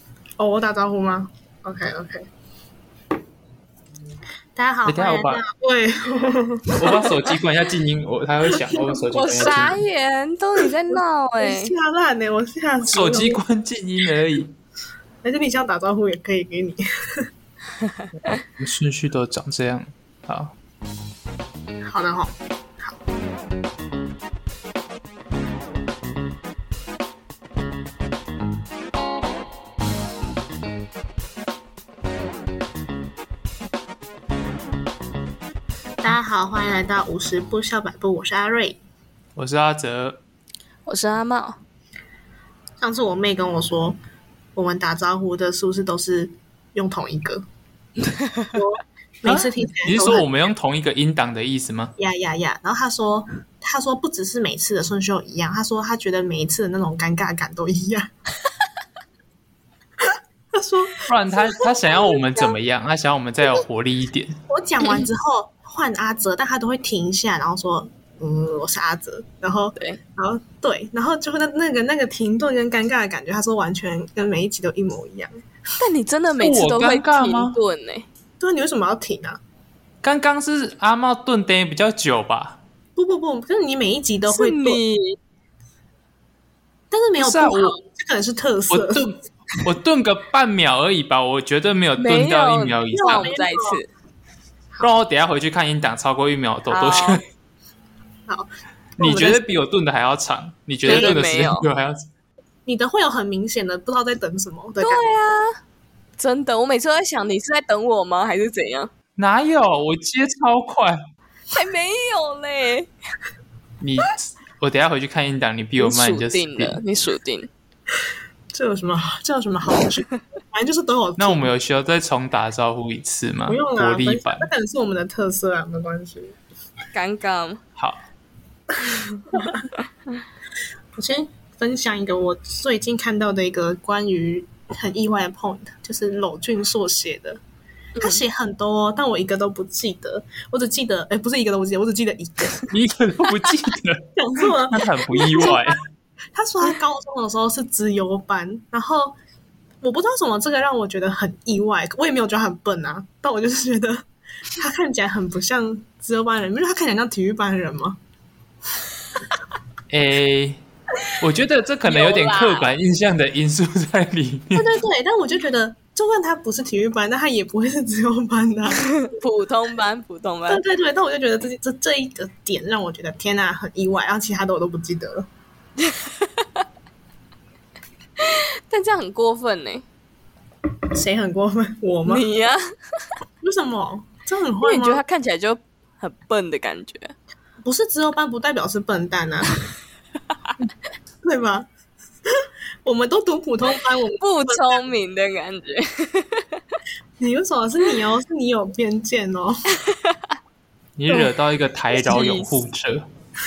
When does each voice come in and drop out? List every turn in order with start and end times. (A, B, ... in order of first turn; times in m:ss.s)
0:00.4-0:02.3 A
0:04.6-0:07.2 A
0:04.8-0:05.4 B
0:06.7-0:09.8 B
0:09.1-0:11.7 C
0:10.9-0:13.4 A
0:12.9-0:14.5 B
0:15.2-0:17.3 A
0:18.4-0:20.5 B
0:21.8-0:23.0 A
0:36.0-0:38.8 A
0:39.4-0:40.2 B
0:40.8-0:41.6 C
0:42.8-0:44.0 A
0:44.6-0:47.4 A
0:48.1-0:48.5 C
0:48.5-0:50.3 A
0:49.2-0:51.9 B
0:52.0-0:58.1 A
1:00.0-1:01.9 A
1:01.1-1:04.4 B
1:04.5-1:15.4 A
1:15.8-1:18.0 C
1:16.4-1:17.6 B
1:18.4-1:19.4 A
1:20.0-1:22.6 B
1:23.0-1:24.8 A
1:24.3-1:25.2 C
1:26.9-1:29.0 A
1:27.2-1:27.8 B
1:28.7-1:33.3 B
1:32.0-1:33.9 C
1:32.9-1:33.8 A
1:34.8-1:37.2 B
1:36.7-1:37.2 C
1:38.3-1:39.4 A
1:39.0-1:42.1 B
1:40.8-1:41.7 C
1:40.9-1:41.1 A
1:42.6-1:45.1 A
1:44.8-1:45.6 C
1:46.2-1:48.9 C
1:49.2-1:51.0 B
1:51.5-1:52.9 C
1:53.8-1:56.8 B
1:55.8-1:57.5 C
1:58.5-2:01.5 A
2:01.2-2:04.5 B
2:03.5-2:06.4 A
2:06.9-2:07.6 C
2:07.8-2:08.0 B
2:09.3-2:09.6 A
2:11.0-2:17.4 A
2:18.0-2:22.7 A
2:22.7-2:25.8 B
2:24.2-2:25.8 A
2:26.3-2:29.2 A
2:29.8-2:38.0 A
2:39.9-2:40.6 B
2:41.2-2:44.8 B
2:41.9-2:42.7 C
2:44.5-2:49.0 A
2:48.9-2:50.6 C
2:50.5-2:55.3 A
2:55.8-2:56.5 C
2:58.2-2:59.8 C
3:00.9-3:02.3 A
3:02.0-3:02.6 C
3:03.4-3:05.0 A
3:04.6-3:07.1 C
3:07.6-3:09.6 A
3:11.2-3:11.7 A
3:12.3-3:14.8 A
3:14.2-3:16.6 C
3:17.2-3:19.6 A
3:19.8-3:20.2 C
3:21.0-3:23.1 B
3:22.1-3:22.5 C